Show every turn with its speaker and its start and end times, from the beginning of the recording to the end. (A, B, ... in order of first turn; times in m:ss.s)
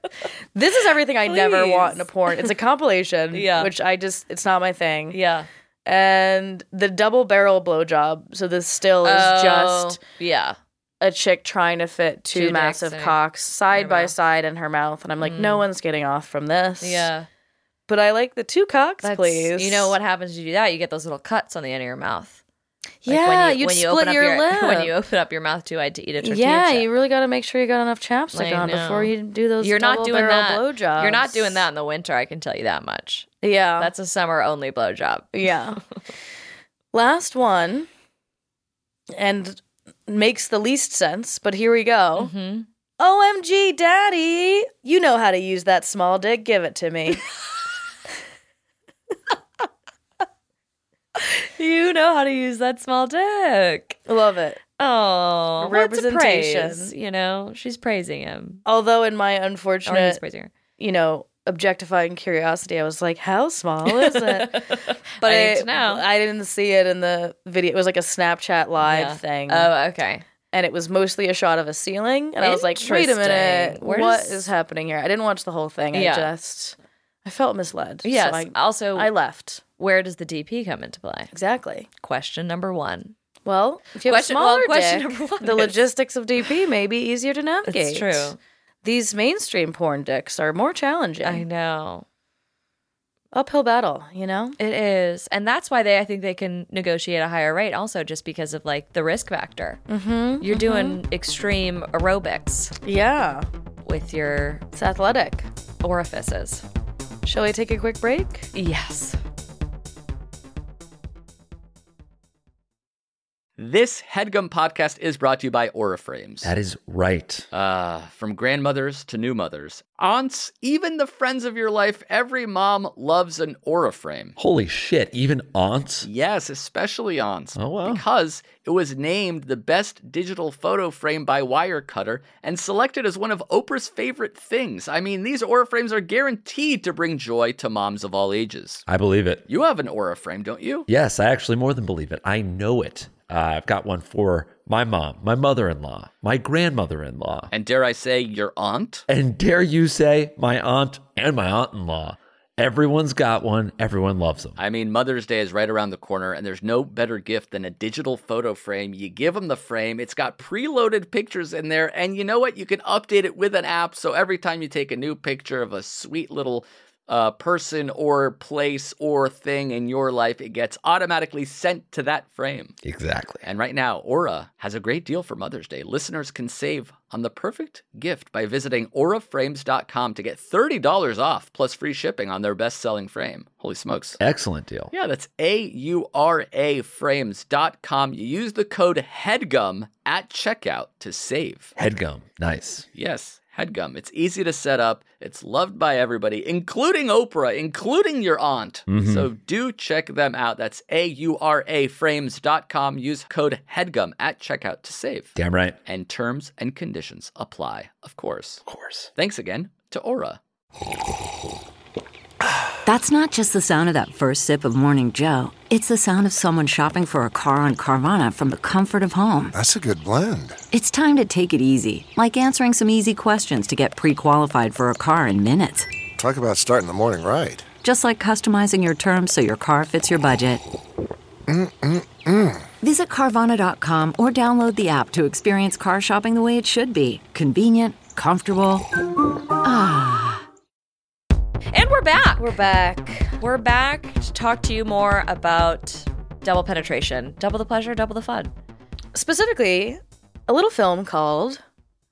0:00.5-0:05.2 A
0:01.2-0:02.4 B
0:03.3-0:03.7 B
0:05.1-0:05.5 B
0:05.8-0:10.0 A
0:09.0-0:10.6 B
0:11.0-0:17.1 A
0:12.3-0:13.2 B
0:13.7-0:14.1 B
0:15.2-0:15.6 B
0:16.8-0:17.3 B
0:17.9-0:19.9 A
0:19.0-0:22.4 B
0:23.0-0:24.9 A
0:23.0-0:26.9 B
0:26.2-0:31.6 A
0:28.3-0:35.3 B
0:33.4-0:33.9 A
0:35.3-0:35.8 A
0:36.9-0:37.9 A
0:39.1-0:42.3 A
0:42.2-0:42.7 B
0:43.0-0:47.2 A
0:51.2-0:54.0 B
0:54.0-0:54.6 A
0:54.8-0:58.6 B
0:55.6-0:56.9 A
0:58.6-1:00.2 A
0:59.8-1:00.5 B
1:00.8-1:09.7 A
1:03.8-1:06.0 B
1:08.8-1:10.2 B
1:10.5-1:19.6 A
1:12.4-1:14.5 B
1:15.9-1:16.3 B
1:18.0-1:19.1 B
1:19.8-1:21.3 B
1:21.3-1:21.9 A
1:22.0-1:23.1 B
1:23.4-1:31.4 A
1:24.0-1:25.7 B
1:27.6-1:28.4 B
1:31.2-1:32.0 B
1:33.3-1:34.6 A
1:34.6-1:39.8 B
1:39.9-1:41.0 A
1:40.4-1:42.7 B
1:42.8-1:43.5 A
1:43.8-1:44.6 B
1:44.7-1:45.5 A
1:45.8-1:46.6 B
1:47.2-1:48.5 A
1:48.5-1:49.2 B
1:53.6-1:56.5 C
1:56.4-1:57.4 D
1:57.5-2:04.3 C
2:04.4-2:06.1 D
2:06.0-2:18.8 C
2:07.5-2:08.0 D
2:18.8-2:19.4 D
2:19.5-2:20.9 C
2:20.9-2:27.5 D
2:27.5-2:29.0 C
2:29.1-2:34.6 D
2:34.6-2:52.7 C
2:52.8-2:53.4 D
2:53.4-3:04.2 C
3:04.2-3:04.9 D
3:04.9-3:11.7 C
3:11.8-3:12.9 D
3:12.9-3:25.3 C
3:18.9-3:19.3 D
3:25.4-3:25.8 D
3:25.8-3:28.6 C
3:28.6-3:29.1 D
3:29.1-3:30.4 C
3:32.8-3:39.5 E
3:39.6-3:40.6 F
3:40.7-3:45.9 E
3:46.2-3:47.6 F
3:47.8-3:50.6 E
3:51.5-3:52.7 F
3:52.8-3:58.9 E
3:59.6-4:00.4 E
4:01.7-4:02.6 B
4:02.4-4:03.4 A
4:03.4-4:08.5 B
4:09.1-4:11.6 A